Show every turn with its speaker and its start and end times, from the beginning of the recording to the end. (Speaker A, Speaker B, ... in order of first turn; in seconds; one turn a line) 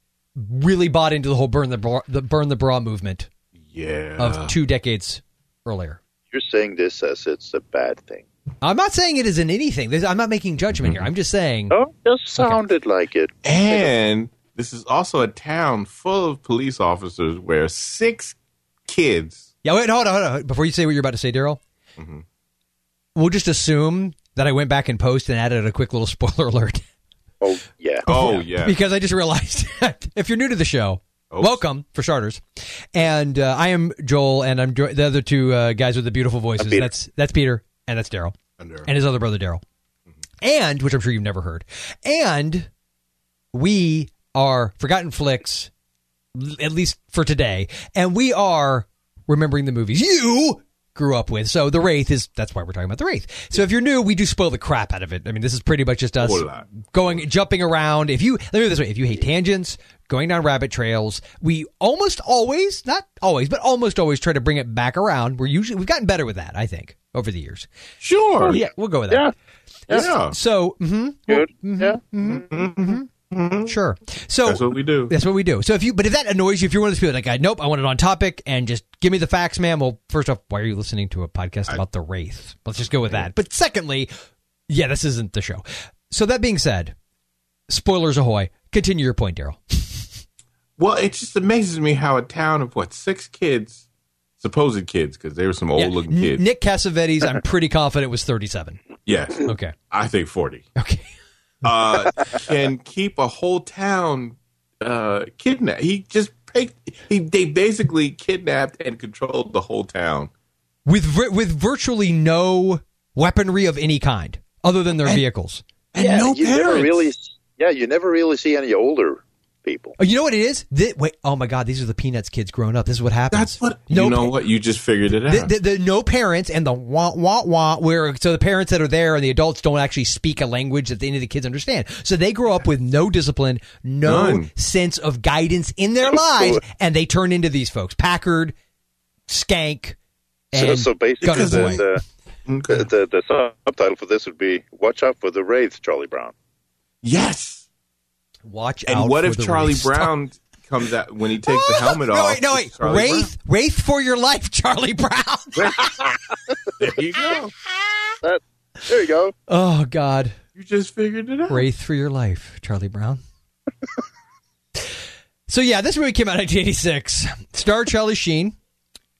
Speaker A: 0.3-3.3
Speaker B: 3.6-4.5
Speaker A: 4.2-6.0
Speaker C: 6.3-8.2
Speaker A: 8.6-11.7
Speaker B: 10.7-11.0
Speaker C: 11.7-13.9
Speaker B: 13.4-19.5
Speaker A: 19.6-21.6
Speaker B: 22.0-22.2
Speaker A: 23.1-26.8
Speaker C: 27.4-28.0
Speaker B: 28.0-28.8
Speaker A: 28.1-39.6
Speaker B: 31.3-31.6
Speaker C: 36.6-36.9
Speaker B: 38.6-38.9
Speaker A: 40.4-42.7
Speaker A: 43.5-45.7
Speaker A: 46.3-67.7
Speaker B: 56.2-57.1
Speaker B: 68.0-68.6
Speaker C: 68.4-69.3
Speaker A: 68.5-69.3
Speaker B: 69.9-70.3
Speaker A: 70.0-73.1
Speaker C: 71.3-72.0
Speaker B: 72.2-73.7
Speaker A: 73.6-84.1
Speaker B: 74.4-75.1
Speaker B: 82.8-83.3
Speaker A: 84.7-86.9
Speaker A: 87.7-90.1
Speaker B: 90.8-93.8
Speaker B: 94.4-96.4
Speaker A: 95.8-98.8
Speaker B: 99.0-100.7
Speaker A: 99.4-99.7
Speaker A: 100.8-101.1
Speaker B: 101.6-110.3
Speaker A: 110.8-115.6
Speaker B: 115.9-117.1
Speaker C: 116.0-120.0
Speaker A: 120.0-124.4
Speaker B: 123.3-125.5
Speaker A: 125.3-138.5
Speaker B: 134.0-134.5
Speaker C: 136.2-136.6
Speaker A: 139.3-140.0
Speaker A: 140.5-141.8
Speaker C: 140.5-142.0
Speaker B: 141.2-141.8
Speaker B: 142.4-142.9
Speaker C: 142.7-146.3
Speaker B: 147.0-147.7
Speaker A: 148.4-150.1
Speaker B: 148.9-153.3
Speaker A: 151.4-155.8
Speaker B: 155.6-156.2
Speaker B: 156.8-157.5
Speaker C: 158.2-159.3
Speaker A: 159.5-160.4
Speaker B: 160.5-161.7
Speaker A: 161.5-163.2
Speaker A: 165.5-168.5